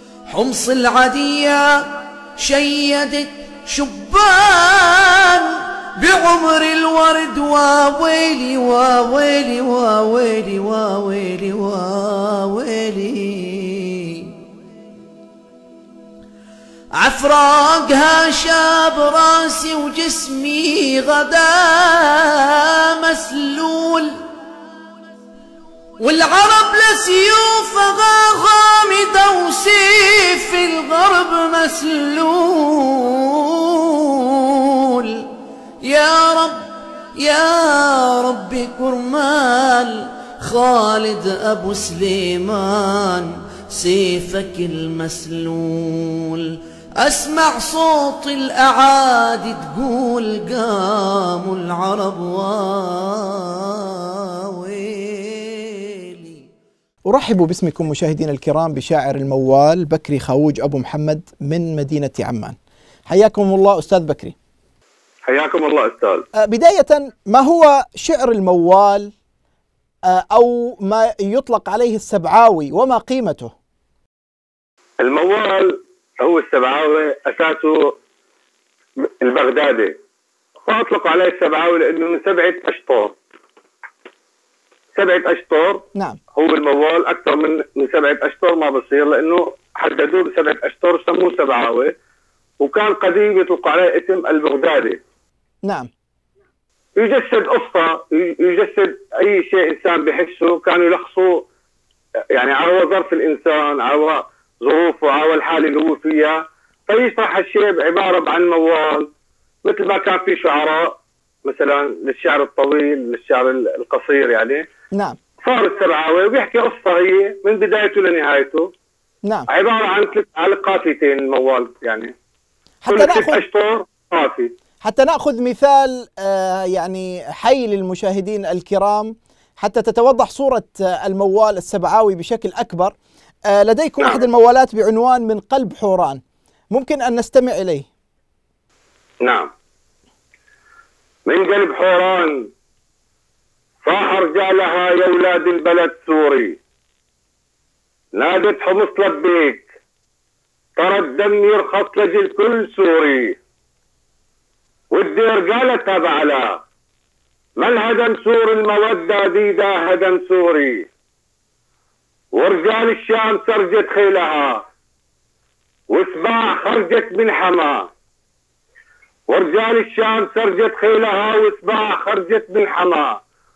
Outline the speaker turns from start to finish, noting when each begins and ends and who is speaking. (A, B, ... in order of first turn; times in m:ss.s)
0:00.3-0:14.3 A
0:17.0-0:24.2 A
0:26.0-0:35.3 A
0:35.8-0:56.4 A
0:57.1-1:02.6 B
1:03.1-1:04.4 B
1:05.2-1:06.3 C
1:06.4-1:09.1 B
1:10.1-1:13.5 B
1:15.0-1:18.0 C
1:19.0-1:20.0 C
1:20.7-1:23.2 C
1:25.0-1:31.9 C
1:32.6-1:35.0 C
1:35.6-1:35.9 B
1:37.0-1:41.5 C
1:42.3-1:49.1 C
1:49.6-1:54.7 C
1:54.9-1:55.2 B
1:55.4-1:58.7 C
1:59.5-2:02.1 C
2:02.8-2:03.4 B
2:02.9-2:04.5 C
2:04.8-2:13.0 B
2:13.5-2:16.2 B
2:16.7-2:17.9 B
2:19.2-2:19.5 C
2:21.3-2:22.5 C
2:23.8-2:26.6 C
2:28.2-2:29.7 C
2:30.8-2:33.4 C
2:34.9-2:36.6 C
2:37.6-2:40.9 C
2:42.3-2:44.7 C
2:45.9-2:47.9 C
2:49.3-2:53.2 C